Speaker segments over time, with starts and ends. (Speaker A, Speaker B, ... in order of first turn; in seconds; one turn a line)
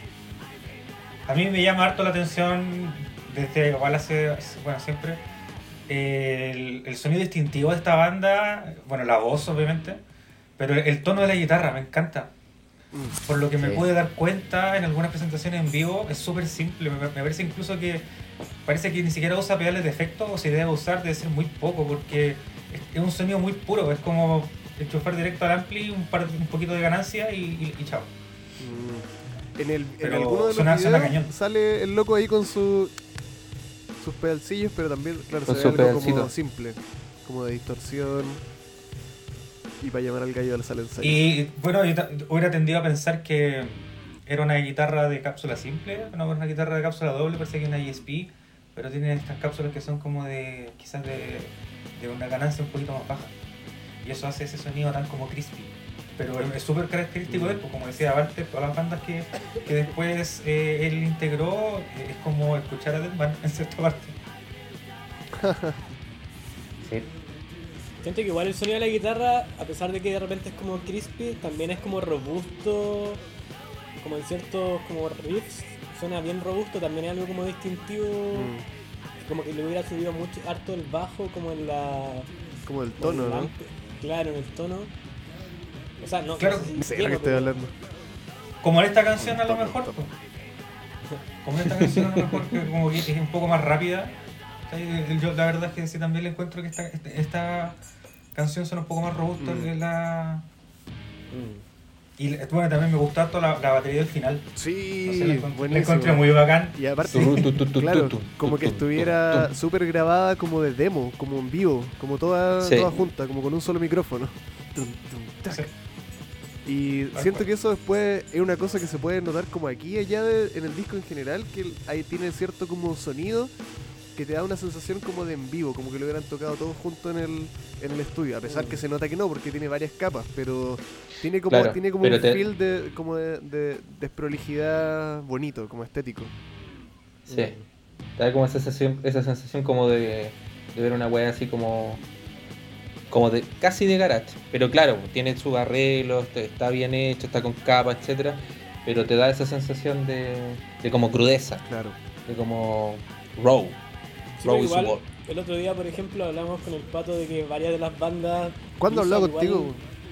Speaker A: 1.3-5.2
Speaker A: 5.9-10.0
Speaker A: 10.6-12.3
Speaker A: 13.2-18.0
Speaker B: 13.6-13.9
Speaker A: 18.7-28.1
Speaker C: 28.6-32.9
Speaker A: 30.0-31.3
Speaker C: 34.0-38.4
Speaker B: 35.5-36.3
Speaker C: 39.8-41.3
Speaker A: 41.0-53.3
Speaker A: 54.0-64.1
Speaker B: 57.3-57.6
Speaker C: 65.3-65.8
Speaker B: 66.8-67.1
Speaker D: 68.0-73.2
Speaker D: 74.0-78.5
Speaker C: 78.3-78.7
Speaker D: 79.2-82.3
Speaker C: 82.7-83.5
Speaker D: 83.0-84.9
Speaker D: 86.0-87.5
Speaker A: 86.4-86.8
Speaker C: 86.8-87.7
Speaker A: 88.6-90.1
Speaker C: 89.2-89.9
Speaker A: 91.4-94.1
Speaker B: 91.7-92.6
Speaker A: 94.7-97.8
Speaker A: 98.3-100.4
Speaker C: 99.4-99.7
Speaker C: 101.3-101.6
Speaker A: 102.2-104.5
Speaker C: 104.6-115.7
Speaker A: 105.1-107.5
Speaker B: 107.1-109.5
Speaker B: 112.6-113.0
Speaker C: 116.7-123.5
Speaker A: 117.1-117.5
Speaker C: 124.2-136.3
Speaker D: 128.5-128.8
Speaker B: 131.5-132.5
Speaker B: 137.3-137.6
Speaker D: 137.3-137.6
Speaker B: 138.2-142.0
Speaker B: 143.1-151.6
Speaker C: 151.7-152.0
Speaker B: 152.3-153.8
Speaker D: 154.4-159.7
Speaker B: 154.4-155.1
Speaker C: 158.8-159.8